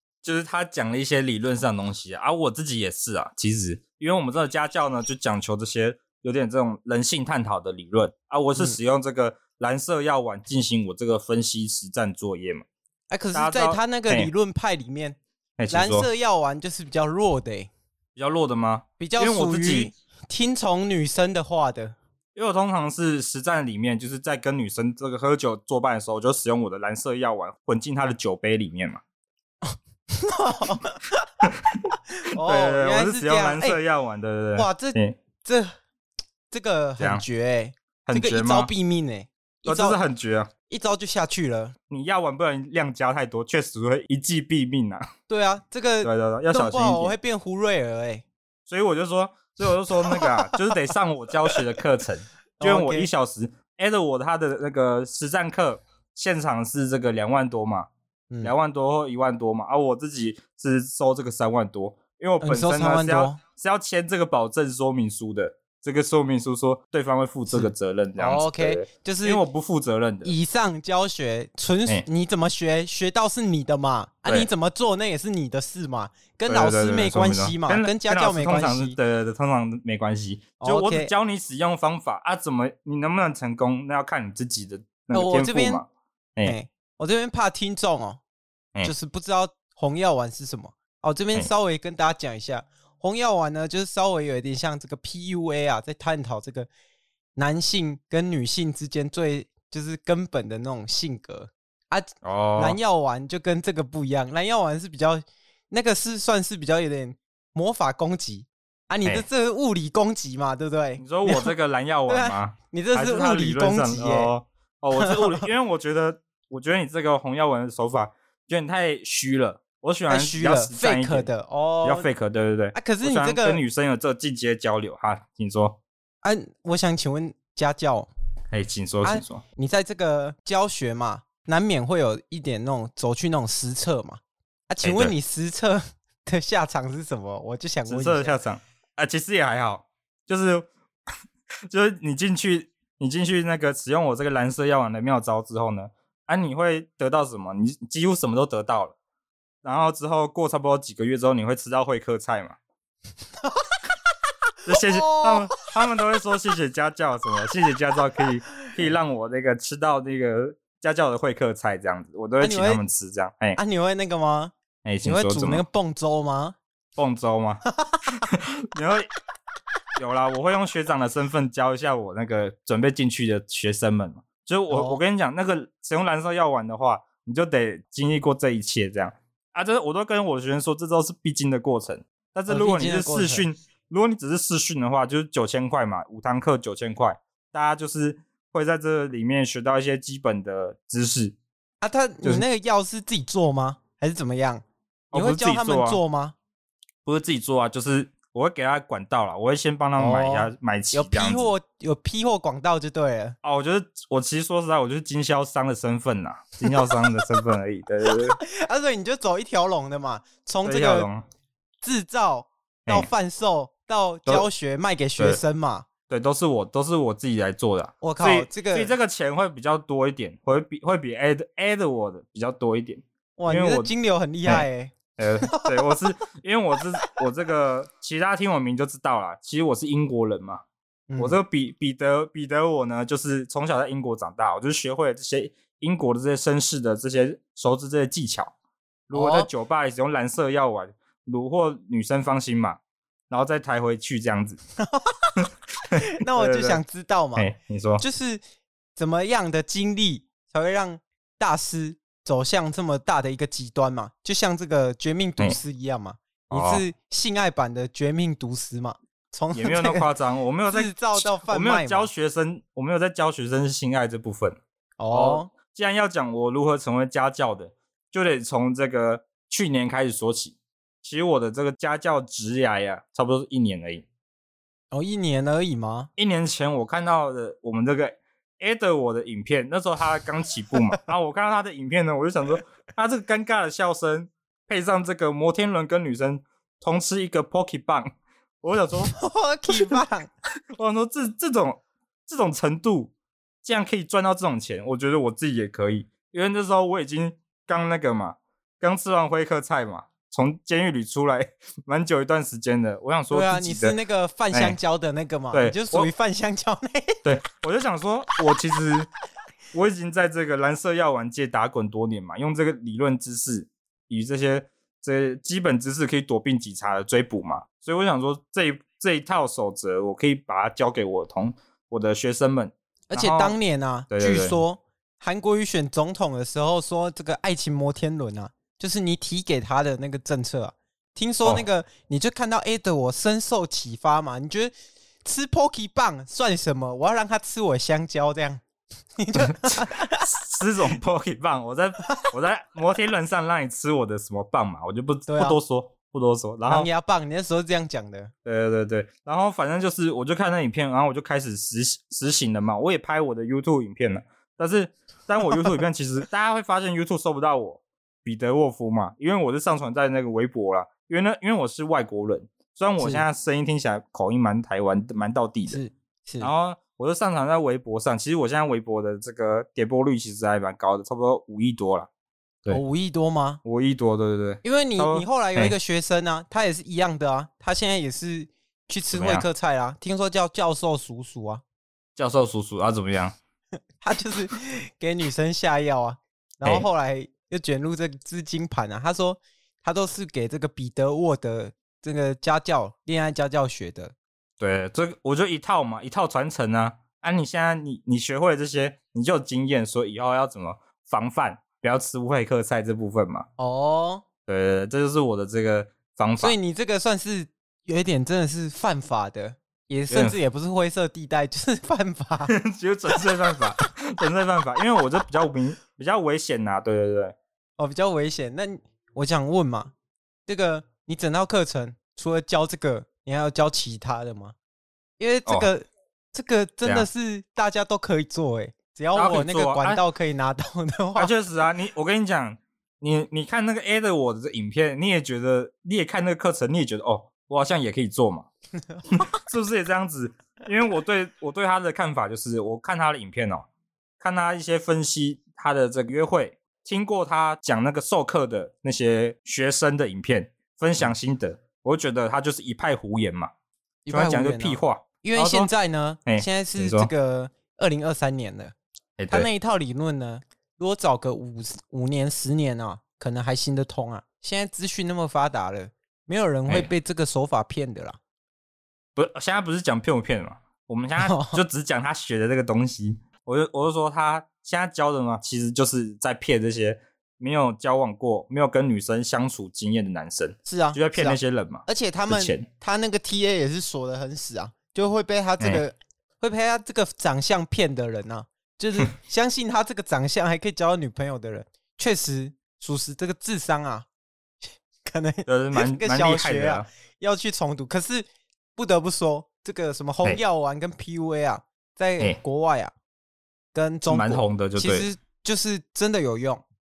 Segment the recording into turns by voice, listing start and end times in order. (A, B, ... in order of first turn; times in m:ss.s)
0:00.2-0:12.6 A
0:13.1-0:15.2 B
0:13.3-0:14.3 A
0:15.6-0:16.1 A
0:15.7-0:17.7 B
0:18.2-0:19.9 A
0:19.0-0:22.0 B
0:22.3-0:29.0 A
0:29.6-0:31.5 B
0:31.4-0:31.8 A
0:32.2-0:33.8 B
0:32.3-0:35.2 A
0:34.6-0:35.7 B
0:36.5-0:40.0 B
0:37.0-0:37.2 A
0:38.0-0:38.7 A
0:39.6-0:40.5 A
0:40.7-0:41.8 B
0:41.9-0:45.1 A
0:45.3-0:48.2 B
0:46.0-0:47.1 A
0:48.7-0:57.9 A
0:50.0-0:50.8 B
0:52.6-0:53.1 B
0:58.4-1:10.3 A
1:02.4-1:03.4 B
1:07.5-1:09.4 B
1:10.2-1:19.0 B
1:16.5-1:26.5 A
1:20.6-1:21.1 B
1:25.1-1:25.8 B
1:26.4-1:28.2 B
1:28.8-1:36.7 B
1:37.4-1:51.5 B
1:42.2-1:42.8 A
1:51.0-2:01.3 A
1:52.1-1:54.3 B
1:55.0-1:55.4 B
2:00.1-2:02.1 B
2:01.8-2:05.8 A
2:02.7-2:03.6 B
2:06.2-2:08.1 B
2:08.5-2:09.4 A
2:09.0-2:18.4 B
2:14.8-2:15.1 A
2:17.9-2:20.7 A
2:21.7-2:29.0 A
2:29.6-2:32.6 A
2:33.4-2:33.7 B
2:34.6-2:43.6 A
2:34.7-2:35.6 B
2:42.4-2:42.8 B
2:43.6-2:46.6 B
2:44.8-2:45.6 A
2:47.0-2:49.1 A
2:47.8-2:48.2 B
2:50.0-3:11.4 A
2:54.7-2:55.0 B
3:02.5-3:03.4 B
3:11.8-3:16.4 B
3:15.1-3:16.0 A
3:17.0-3:21.5 A
3:20.0-3:23.4 B
3:23.4-3:28.4 A
3:26.6-3:26.9 B
3:28.4-3:31.1 B
3:30.6-3:31.2 A
3:31.8-3:35.9 B
3:36.1-3:43.9 A
3:38.0-3:38.9 B
3:43.4-3:45.9 B
3:45.2-3:50.6 A
3:51.1-3:51.4 B
3:51.2-3:58.5 A
3:59.1-4:02.8 A
3:59.1-3:59.5 B
4:03.3-4:04.6 A
4:04.8-4:05.4 B
4:05.4-4:06.8 A
4:06.0-4:07.5 B
4:07.4-4:08.0 A
4:08.0-4:08.4 B
4:09.0-4:20.1 B
4:16.5-4:16.8 A
4:19.5-4:24.6 A
4:20.7-4:22.1 B
4:25.0-4:25.5 B
4:25.1-4:34.0 A
4:34.9-4:36.1 B
4:36.2-4:48.1 A
4:48.6-4:49.2 A
4:49.1-4:50.3 B
4:49.7-4:50.0 A
4:50.7-5:04.0 A
5:03.3-5:07.2 B
5:04.5-5:04.8 A
5:05.5-5:06.1 A
5:07.2-5:09.1 A
5:09.7-5:23.6 A
5:23.1-5:34.7 B
5:24.1-5:24.6 A
5:35.2-5:38.6 B
5:39.2-5:40.2 B
5:39.4-5:46.9 A
5:45.3-5:45.6 B
5:46.7-5:48.3 B
5:48.4-6:05.8 A
6:03.0-6:03.2 B
6:05.7-6:06.5 B
6:06.4-6:12.1 A
6:12.7-6:13.6 B
6:13.6-6:15.7 A
6:14.6-6:21.6 B
6:19.1-6:19.4 A
6:22.2-6:23.4 A
6:24.0-6:34.1 B
6:34.6-6:43.4 A
6:43.6-6:44.2 B
6:44.4-6:46.5 A
6:46.4-6:52.5 B
6:50.1-6:50.4 A
6:52.5-6:57.3 A
6:57.8-6:59.9 B
7:00.5-7:04.5 B
7:05.2-7:11.3 B
7:09.1-7:10.0 A
7:11.2-7:18.5 A
7:18.8-7:19.2 B
7:19.1-7:23.6 A
7:24.2-7:33.5 A
7:34.0-7:38.7 B
7:34.1-7:35.7 A
7:36.2-7:37.1 A
7:39.2-7:39.5 A
7:39.3-7:48.2 B
7:49.2-8:02.6 A
7:51.2-7:51.6 B
8:00.6-8:14.0 B
8:15.0-8:22.9 B
8:15.5-8:16.9 A
8:23.7-8:26.6 B
8:24.1-8:25.1 A